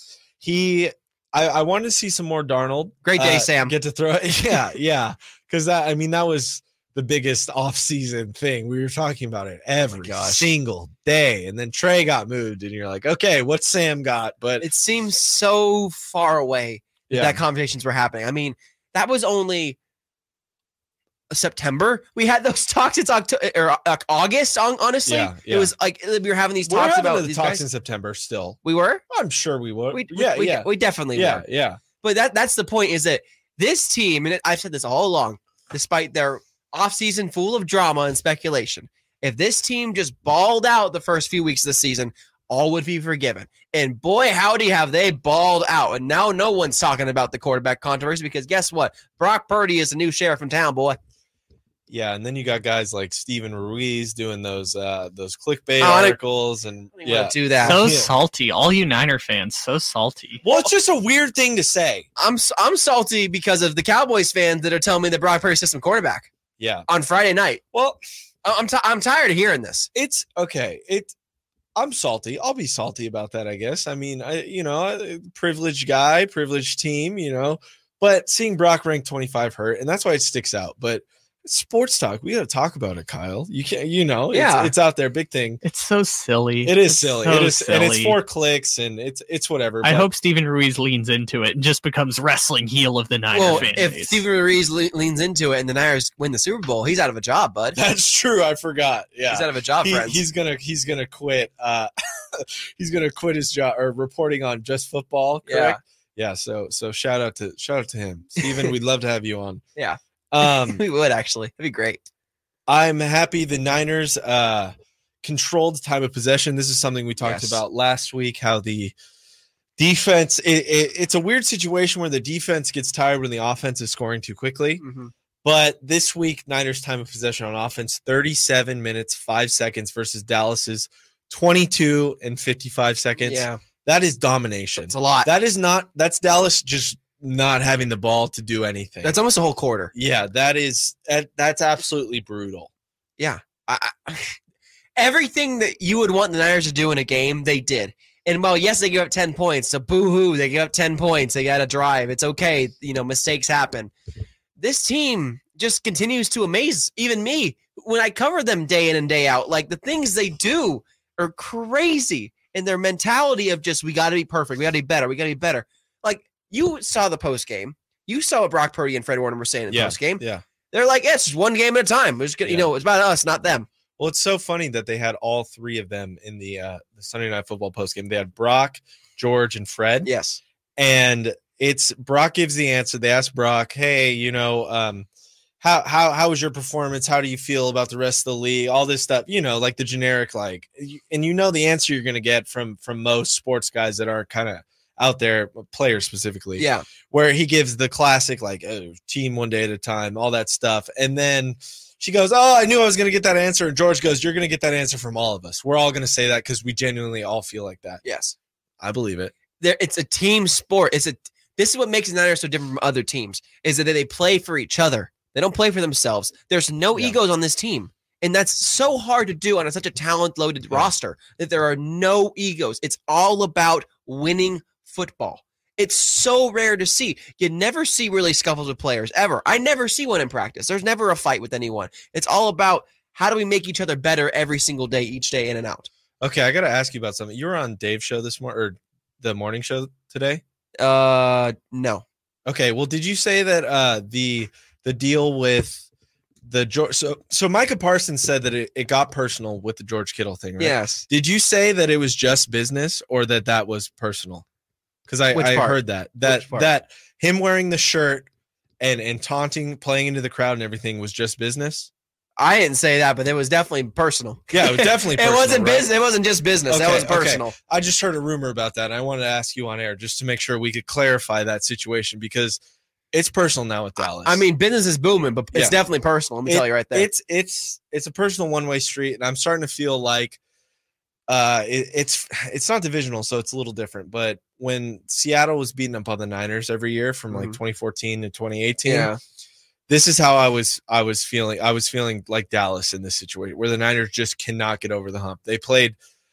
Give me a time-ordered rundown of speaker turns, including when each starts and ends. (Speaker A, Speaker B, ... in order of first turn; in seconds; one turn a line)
Speaker A: 0.4-14.7
Speaker B: 3.0-3.7
Speaker B: 9.9-10.5
Speaker B: 14.6-19.8
Speaker A: 17.1-17.4
Speaker B: 21.3-27.6
Speaker A: 25.0-25.7
Speaker A: 26.6-31.8
Speaker B: 28.6-29.0
Speaker B: 29.9-31.4
Speaker B: 32.0-51.0
Speaker A: 51.9-58.1
Speaker B: 55.8-56.2
Speaker B: 57.0-57.8
Speaker C: 57.6-60.4
Speaker A: 60.4-62.1
Speaker B: 62.2-66.3
Speaker A: 66.6-66.8
Speaker B: 66.9-67.6
Speaker A: 67.7-68.0
Speaker B: 68.4-69.9
Speaker A: 69.9-71.1
Speaker A: 71.8-85.6
Speaker B: 84.3-84.7
Speaker C: 85.6-88.2
Speaker A: 86.6-90.1
Speaker C: 89.8-94.2
Speaker B: 93.3-97.8
Speaker A: 93.4-93.8
Speaker A: 97.8-109.6
Speaker B: 99.3-100.2
Speaker B: 105.5-105.8
Speaker B: 108.4-108.7
Speaker B: 109.8-112.0
Speaker A: 110.3-110.8
Speaker A: 112.7-118.9
Speaker B: 117.2-117.6
Speaker A: 119.8-124.8
Speaker B: 124.8-125.1
Speaker A: 125.4-139.2
Speaker B: 133.2-133.6
Speaker B: 134.8-135.3
Speaker B: 139.0-139.9
Speaker A: 139.9-142.7
Speaker B: 143.2-144.4
Speaker B: 145.0-153.9
Speaker B: 154.6-173.7
Speaker A: 169.7-170.4
Speaker A: 174.0-180.1
Speaker B: 180.0-180.4
Speaker A: 180.8-185.1
Speaker A: 185.6-208.0
Speaker B: 196.6-196.8
Speaker B: 208.0-208.3
Speaker A: 208.8-209.3
Speaker B: 209.6-235.9
Speaker A: 236.2-240.4
Speaker B: 240.8-242.0
Speaker A: 242.4-245.8
Speaker A: 246.4-254.4
Speaker B: 250.6-251.1
Speaker A: 255.1-258.3
Speaker B: 255.3-256.7
Speaker A: 258.8-261.9
Speaker B: 262.4-267.5
Speaker A: 264.5-265.9
Speaker A: 266.7-272.6
Speaker A: 273.1-274.4
Speaker B: 274.0-277.1
Speaker A: 275.5-275.8
Speaker A: 276.4-280.4
Speaker A: 281.3-289.1
Speaker B: 287.3-287.6
Speaker B: 288.8-289.2
Speaker A: 289.9-295.9